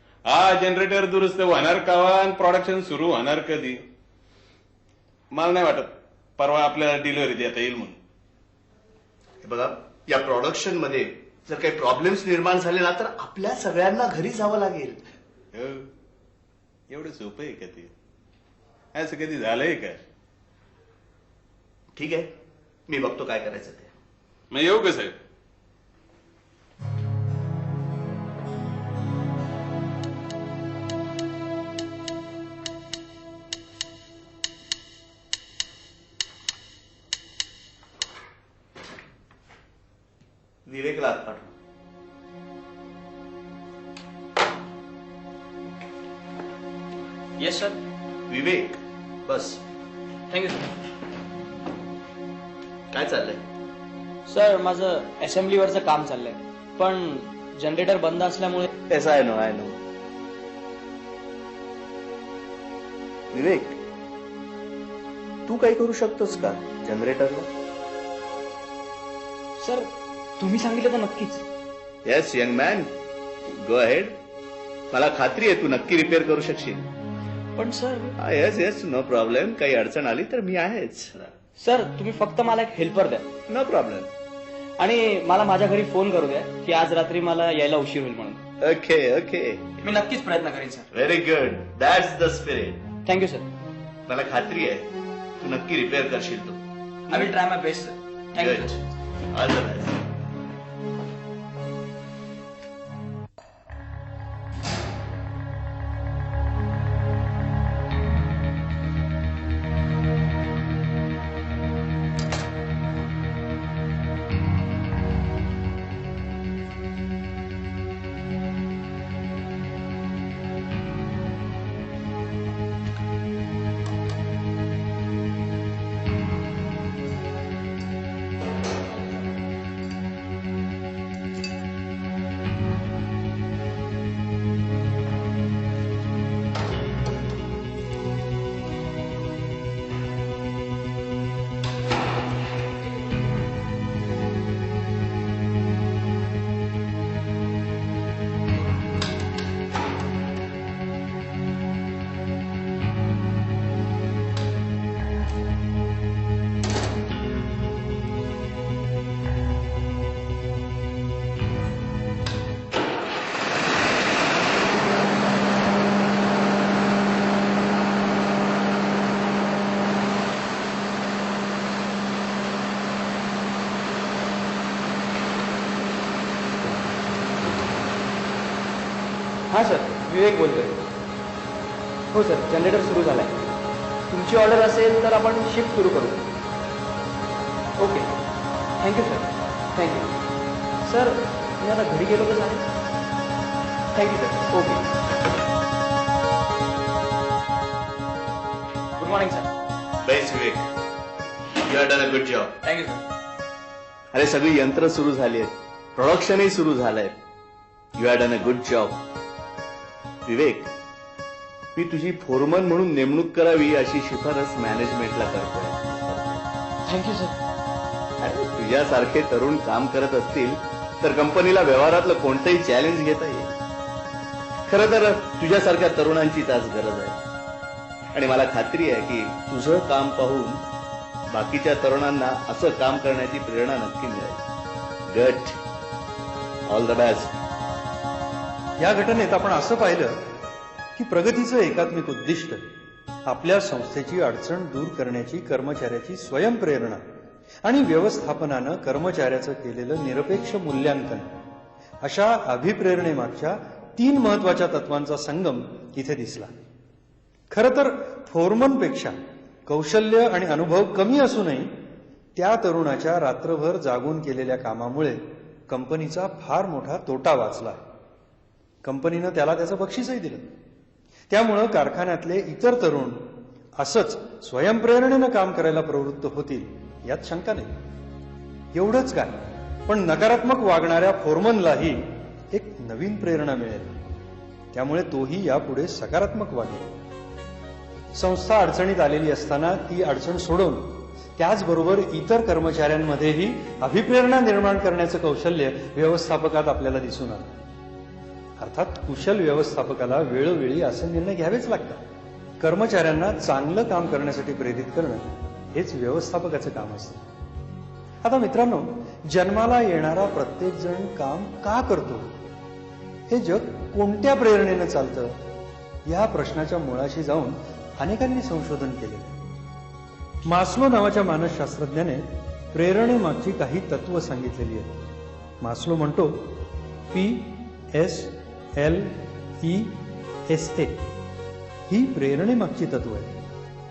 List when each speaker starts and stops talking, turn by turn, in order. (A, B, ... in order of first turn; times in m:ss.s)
0:00.2-0:03.8 A
0:05.3-0:08.0 A
0:09.4-0:15.1 B
0:15.5-0:15.9 A
0:16.9-0:17.9 A
0:18.9-0:20.0 A
0:22.0-0:22.3 B
0:22.9-0:23.9 B
0:24.5-0:25.2 A
0:40.6-0:41.5 B
0:47.4-0:47.8 C
0:48.3-0:49.6 B
0:50.3-0:50.6 C
0:52.9-0:53.4 B
0:54.3-0:58.7 C
0:58.9-0:59.8 B
1:03.3-1:03.8 B
1:05.5-1:07.5 B
1:09.6-1:11.4 C
1:12.0-1:12.9 B
1:13.5-1:14.1 B
1:14.9-1:16.8 B
1:17.6-1:18.1 C
1:18.2-1:21.2 B
1:21.6-1:23.4 C
1:23.5-1:24.1 B
1:24.8-1:28.4 C
1:28.6-1:29.6 B
1:29.8-1:30.9 C
1:30.9-1:32.8 B
1:33.0-1:33.5 C
1:34.1-1:34.9 B
1:35.4-1:36.6 B
1:37.1-1:38.8 C
1:38.4-1:38.7 B
1:39.3-1:40.0 B
2:59.5-3:00.7 C
3:02.1-3:03.4 C
3:04.1-3:06.2 C
3:07.8-3:08.1 C
3:08.8-3:10.1 C
3:10.8-3:12.6 C
3:13.9-3:14.8 C
3:19.0-3:19.5 C
3:20.0-3:20.6 B
3:21.6-3:22.5 B
3:22.6-3:23.0 C
3:24.1-3:27.1 B
3:28.0-3:29.0 B
3:30.2-3:30.7 B
3:31.7-3:36.4 B
3:36.8-3:37.3 C
3:38.2-3:43.5 B
3:44.7-3:47.2 B
3:48.1-3:50.6 B
3:51.3-3:54.4 B
3:55.1-3:55.5 B
3:56.7-3:57.3 B
3:58.8-4:00.2 D
4:01.0-4:02.7 D
4:03.2-4:07.0 D
4:07.6-4:11.4 D
4:12.0-4:16.5 D
4:17.5-4:21.7 D
4:22.3-4:27.8 D
4:28.8-4:30.5 D
4:31.3-4:37.7 D
4:38.7-4:44.0 D
4:44.7-4:46.9 D
4:48.1-4:57.6 D
4:58.6-5:02.0 D
5:02.6-5:07.2 D
5:08.2-5:12.3 D
5:13.3-5:15.4 D
5:16.0-5:19.4 D
5:20.5-5:25.0 D
5:25.6-5:26.6 D
5:27.1-5:31.0 D
5:31.9-5:33.4 D